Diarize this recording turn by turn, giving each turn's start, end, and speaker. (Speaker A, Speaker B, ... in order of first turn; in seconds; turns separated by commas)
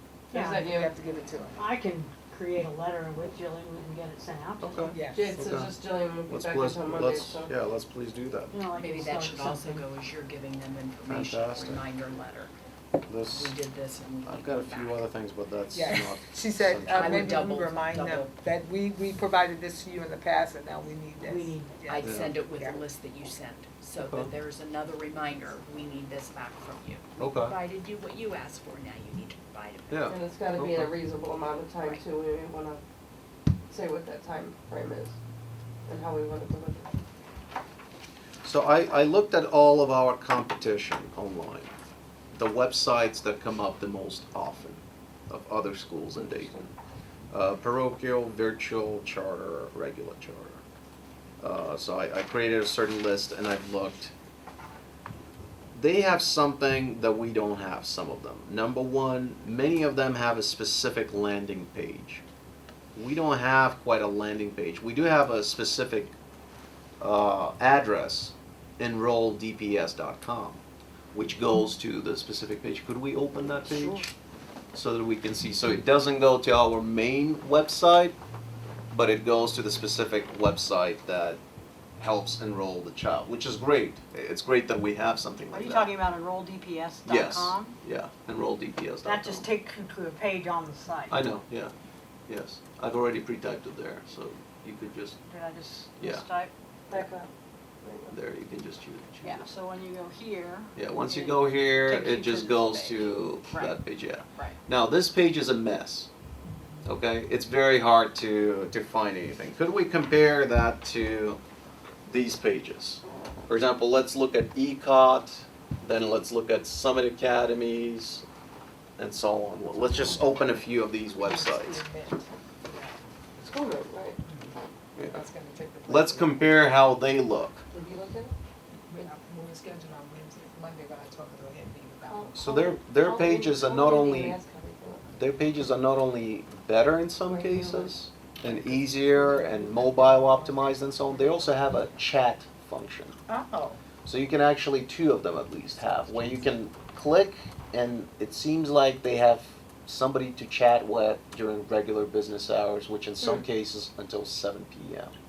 Speaker A: 0.3-0.9, Speaker B: 0.3-0.6, Speaker C: 0.6-1.6, Speaker B: 1.6-4.9, Speaker D: 4.6-5.7, Speaker C: 4.9-5.4, Speaker A: 5.1-7.5, Speaker D: 6.3-8.6, Speaker B: 8.5-9.9, Speaker E: 8.8-12.5, Speaker D: 11.1-11.8, Speaker D: 13.1-13.5, Speaker E: 13.2-15.0, Speaker D: 14.2-17.3, Speaker C: 15.7-22.8, Speaker E: 16.9-18.3, Speaker B: 21.2-21.8, Speaker E: 21.9-30.2, Speaker D: 22.0-22.3, Speaker D: 24.0-24.3, Speaker D: 27.2-27.6, Speaker D: 29.9-30.9, Speaker A: 30.1-32.8, Speaker A: 33.7-35.1, Speaker A: 35.9-36.9, Speaker D: 38.4-41.7, Speaker D: 42.3-46.7, Speaker A: 46.2-46.7, Speaker D: 47.3-50.6, Speaker D: 51.4-54.1, Speaker D: 55.7-62.2, Speaker D: 63.0-66.1, Speaker D: 67.0-70.6, Speaker D: 71.1-74.1, Speaker B: 73.6-74.0, Speaker D: 74.7-78.2, Speaker D: 78.9-81.4, Speaker D: 82.0-85.9, Speaker B: 85.5-87.8, Speaker D: 87.1-89.5, Speaker B: 89.0-91.2, Speaker D: 91.1-91.7, Speaker D: 92.3-95.2, Speaker B: 95.3-97.0, Speaker D: 96.0-96.2, Speaker A: 96.9-97.3, Speaker A: 97.8-98.1, Speaker D: 98.1-99.5, Speaker B: 99.2-103.8, Speaker D: 100.8-106.1, Speaker C: 106.4-106.8, Speaker D: 106.8-111.4, Speaker D: 112.1-118.2, Speaker D: 119.0-121.8, Speaker C: 119.9-120.2, Speaker C: 121.2-122.9, Speaker A: 123.4-124.2, Speaker D: 125.0-125.2, Speaker C: 125.0-126.5, Speaker D: 125.9-127.6, Speaker A: 127.7-128.3, Speaker C: 128.9-132.4, Speaker A: 132.0-135.1, Speaker D: 132.3-134.4, Speaker D: 135.1-143.2, Speaker A: 137.2-139.5, Speaker C: 139.2-140.7, Speaker C: 143.3-143.8, Speaker D: 144.0-155.1